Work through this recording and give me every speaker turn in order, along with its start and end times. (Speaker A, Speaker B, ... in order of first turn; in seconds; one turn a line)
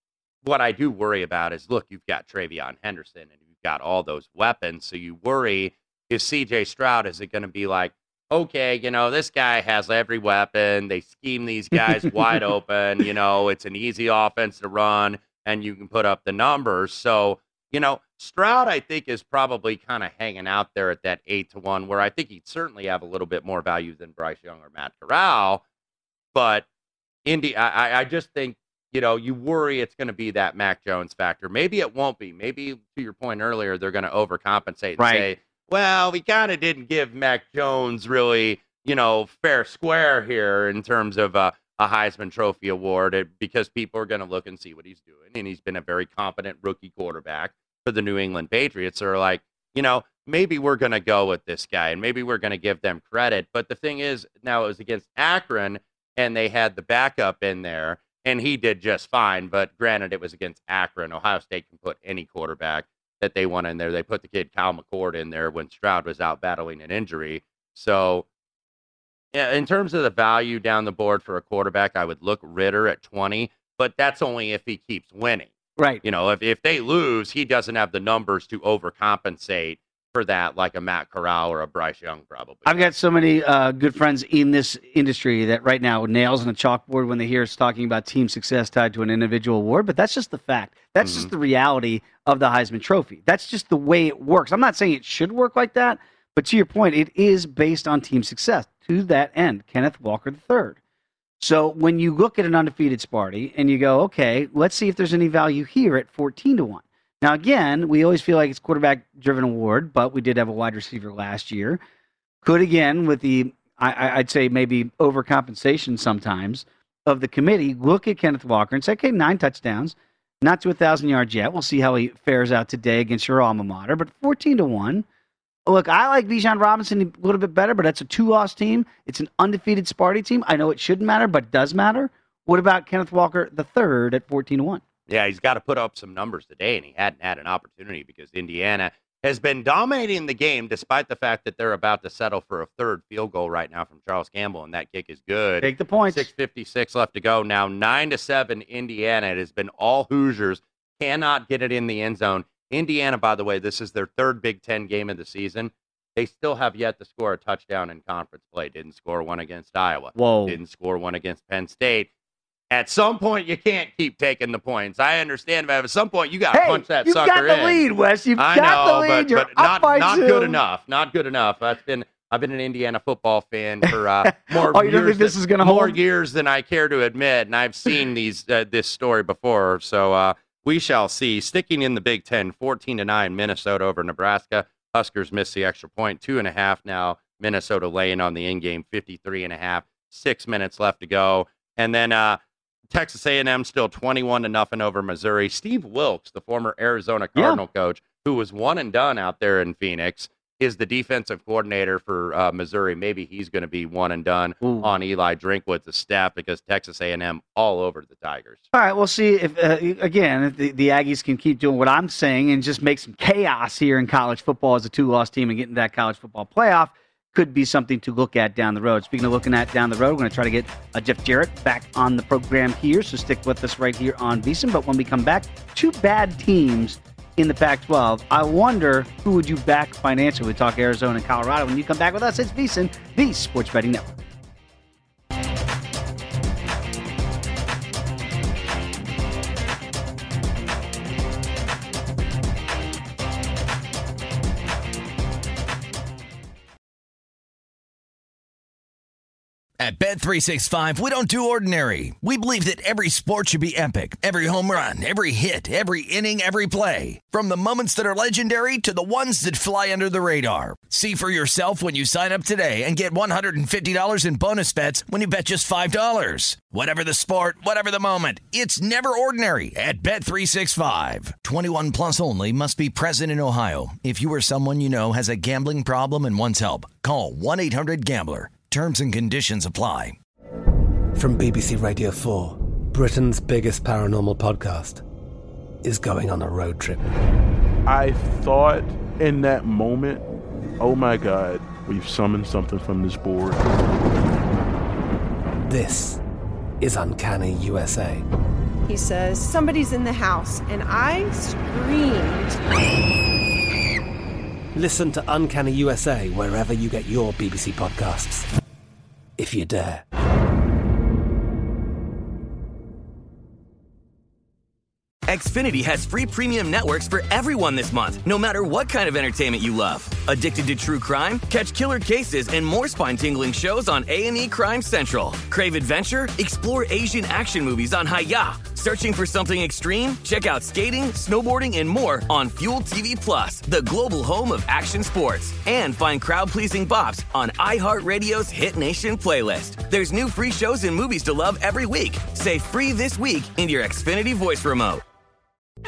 Speaker A: 0.4-25.6
Speaker A: 26.3-26.7
Speaker A: 27.2-68.2
Speaker B: 35.0-35.3
Speaker A: 69.3-75.5
Speaker B: 75.8-76.0
Speaker A: 76.0-82.9
Speaker B: 82.7-100.8
Speaker A: 91.0-91.3
Speaker B: 101.4-111.8
Speaker B: 112.4-125.0
Speaker B: 125.7-134.8
Speaker A: 135.1-162.1
Speaker B: 145.6-146.3
Speaker B: 160.2-160.6
Speaker A: 162.7-167.8
Speaker B: 166.5-170.6
Speaker A: 168.4-192.4
Speaker B: 173.9-176.0
Speaker A: 192.9-208.6
Speaker B: 197.3-197.6
Speaker B: 204.6-204.9
Speaker B: 208.7-234.2
Speaker C: 249.8-280.2
Speaker D: 281.1-285.0
Speaker D: 285.8-287.0
Speaker E: 287.9-290.2
Speaker E: 290.8-293.6
Speaker D: 295.7-296.2
Speaker D: 296.8-298.2
Speaker F: 298.9-302.6
Speaker D: 304.8-308.5
Speaker D: 309.4-310.1
Speaker G: 315.3-345.0